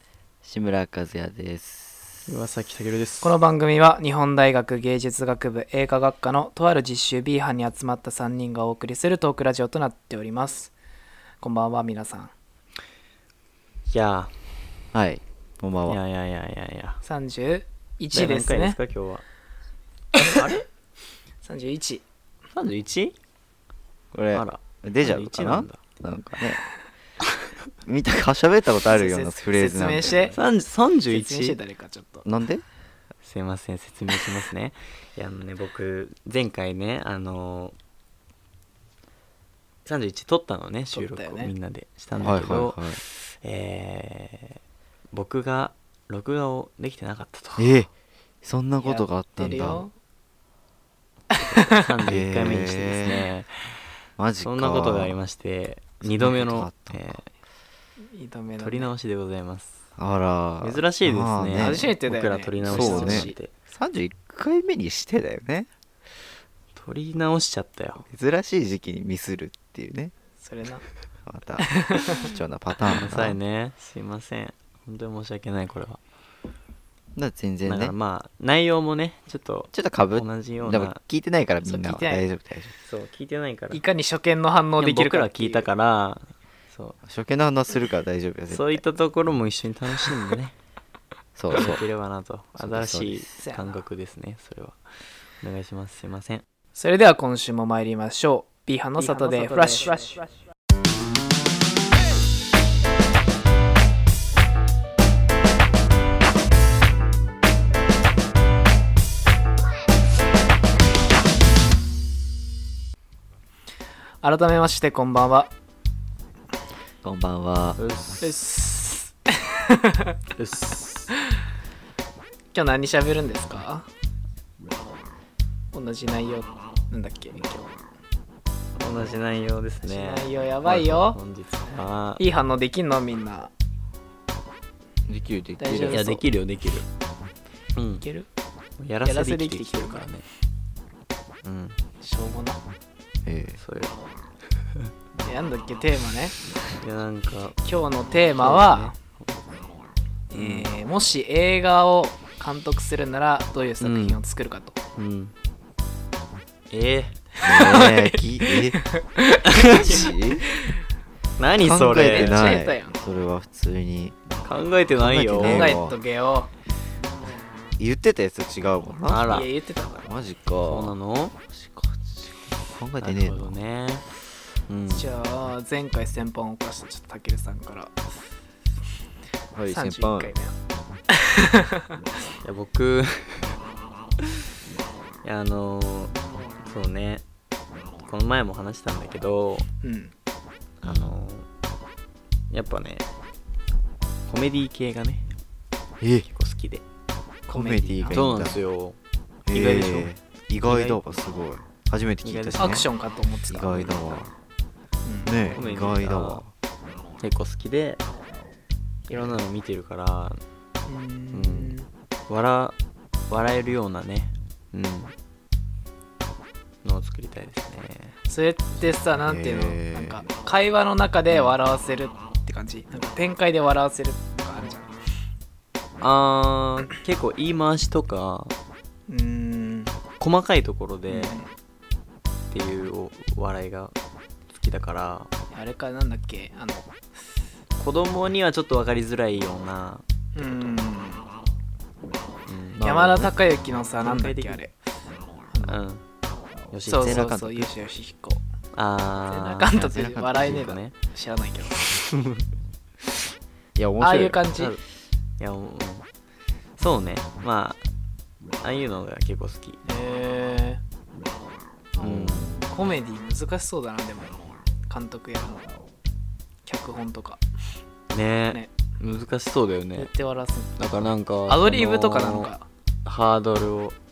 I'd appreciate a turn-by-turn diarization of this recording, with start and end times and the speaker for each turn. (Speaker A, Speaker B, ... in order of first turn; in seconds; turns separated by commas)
Speaker A: 0.4-2.3, Speaker B: 2.3-3.4, Speaker C: 3.2-10.7, Speaker C: 11.4-12.3, Speaker B: 13.9-14.3, Speaker A: 14.9-16.0, Speaker B: 15.9-17.0, Speaker C: 17.0-18.8, Speaker B: 18.1-19.2, Speaker B: 20.2-20.6, Speaker C: 21.4-22.0, Speaker B: 22.5-23.1, Speaker A: 24.1-26.6, Speaker B: 24.3-25.8, Speaker A: 27.9-30.4, Speaker C: 28.9-30.4, Speaker B: 30.3-31.6, Speaker C: 31.1-32.3, Speaker A: 32.2-32.6, Speaker B: 33.2-37.8, Speaker B: 39.9-44.6, Speaker C: 40.9-41.5, Speaker A: 42.2-43.0, Speaker B: 45.1-47.8, Speaker A: 47.6-47.9, Speaker A: 48.4-49.8, Speaker C: 48.8-49.9, Speaker C: 51.3-51.9, Speaker B: 51.5-53.8, Speaker A: 52.1-53.3, Speaker A: 54.2-55.2, Speaker B: 54.4-57.3, Speaker A: 56.0-57.2, Speaker C: 58.1-58.9, Speaker B: 58.6-59.8, Speaker A: 60.0-61.9, Speaker B: 60.6-63.5, Speaker C: 61.6-63.4, Speaker A: 62.6-65.7, Speaker B: 66.8-68.0, Speaker A: 68.1-70.1, Speaker C: 70.4-70.9, Speaker A: 71.3-73.4, Speaker C: 71.6-72.3, Speaker B: 72.8-76.0, Speaker A: 77.2-78.0, Speaker B: 77.7-81.0, Speaker A: 79.7-82.7, Speaker C: 81.6-82.3, Speaker B: 82.8-83.8, Speaker C: 83.7-85.7, Speaker B: 84.8-87.0, Speaker A: 87.0-88.8, Speaker B: 88.5-90.5, Speaker A: 91.4-91.9, Speaker B: 91.5-94.8, Speaker A: 92.6-93.3, Speaker C: 93.4-93.8, Speaker B: 95.4-96.4, Speaker C: 96.8-100.2, Speaker B: 99.5-99.8, Speaker C: 114.2-115.5, Speaker A: 117.0-117.8, Speaker B: 117.8-118.5, Speaker C: 118.2-120.2, Speaker B: 120.4-121.1, Speaker C: 122.5-123.9, Speaker C: 125.7-127.7, Speaker B: 128.8-132.2, Speaker C: 129.8-131.2, Speaker C: 132.2-133.5, Speaker A: 135.1-136.1, Speaker C: 135.6-136.2, Speaker B: 135.9-136.9, Speaker B: 137.8-138.1, Speaker C: 138.0-138.3, Speaker B: 138.8-140.3, Speaker C: 139.0-140.1, Speaker B: 141.4-141.8, Speaker C: 142.0-142.6, Speaker A: 143.2-143.6, Speaker B: 143.6-143.9, Speaker C: 145.2-146.3, Speaker B: 146.8-147.6, Speaker C: 147.6-149.0, Speaker B: 148.4-149.4, Speaker C: 150.3-154.8, Speaker B: 150.3-150.7, Speaker B: 153.8-154.2, Speaker B: 155.0-155.3, Speaker B: 156.7-157.3, Speaker C: 157.4-160.7, Speaker A: 157.4-158.8, Speaker B: 159.5-160.0, Speaker A: 159.7-160.5, Speaker B: 161.4-162.6, Speaker A: 161.6-164.2, Speaker C: 162.0-163.0, Speaker B: 164.5-165.8, Speaker A: 164.9-166.0, Speaker C: 165.4-166.5, Speaker A: 167.8-169.4, Speaker B: 169.1-169.5, Speaker C: 169.3-170.1, Speaker A: 170.0-170.9, Speaker B: 170.6-171.3, Speaker A: 171.5-173.6, Speaker B: 173.0-174.1, Speaker B: 174.7-175.1, Speaker C: 174.9-177.9, Speaker A: 179.6-180.4, Speaker C: 179.7-180.6, Speaker C: 181.1-181.9, Speaker B: 182.4-183.5, Speaker B: 185.2-187.2, Speaker B: 188.1-189.7, Speaker C: 189.8-190.1, Speaker B: 190.8-191.5, Speaker A: 190.8-191.2, Speaker B: 192.5-193.1, Speaker B: 194.3-195.3, Speaker A: 196.0-196.3, Speaker B: 196.3-196.8, Speaker C: 197.5-198.2, Speaker A: 197.5-198.6, Speaker B: 198.1-199.0, Speaker A: 199.5-202.9, Speaker B: 199.5-200.1, Speaker B: 200.6-201.0, Speaker B: 202.2-202.9, Speaker C: 202.6-203.9, Speaker A: 203.5-204.3, Speaker C: 205.1-205.3, Speaker A: 205.2-206.5, Speaker B: 205.5-206.4, Speaker B: 207.2-208.0, Speaker B: 209.1-210.4, Speaker C: 210.9-211.9, Speaker B: 211.3-211.7, Speaker B: 212.3-212.8, Speaker B: 213.3-215.1, Speaker B: 216.8-218.2, Speaker C: 218.3-224.9, Speaker A: 219.2-220.2, Speaker B: 226.0-228.5, Speaker C: 229.1-229.9, Speaker B: 230.2-231.4, Speaker C: 231.1-231.5, Speaker B: 232.5-233.9, Speaker B: 234.5-235.3, Speaker C: 235.5-236.9, Speaker B: 237.8-240.8, Speaker C: 240.4-241.2, Speaker B: 242.5-243.3, Speaker C: 242.8-244.7, Speaker B: 243.9-244.7, Speaker C: 245.5-245.8, Speaker B: 245.6-246.0, Speaker B: 246.7-247.3, Speaker C: 246.8-248.4, Speaker A: 246.9-247.7, Speaker B: 248.7-249.9, Speaker C: 249.3-251.8, Speaker A: 249.7-250.7, Speaker B: 250.4-250.9, Speaker B: 251.8-252.4, Speaker A: 253.8-254.4, Speaker C: 254.0-254.8, Speaker B: 254.6-254.8, Speaker B: 255.4-256.1, Speaker B: 256.8-257.9, Speaker B: 258.6-259.8, Speaker C: 259.9-260.8, Speaker A: 261.9-262.7, Speaker B: 262.0-262.6, Speaker C: 262.7-264.3, Speaker C: 264.9-265.7, Speaker C: 266.7-267.4, Speaker B: 268.1-270.1, Speaker C: 269.9-270.8, Speaker B: 270.8-272.5, Speaker C: 271.5-272.7, Speaker B: 273.1-274.0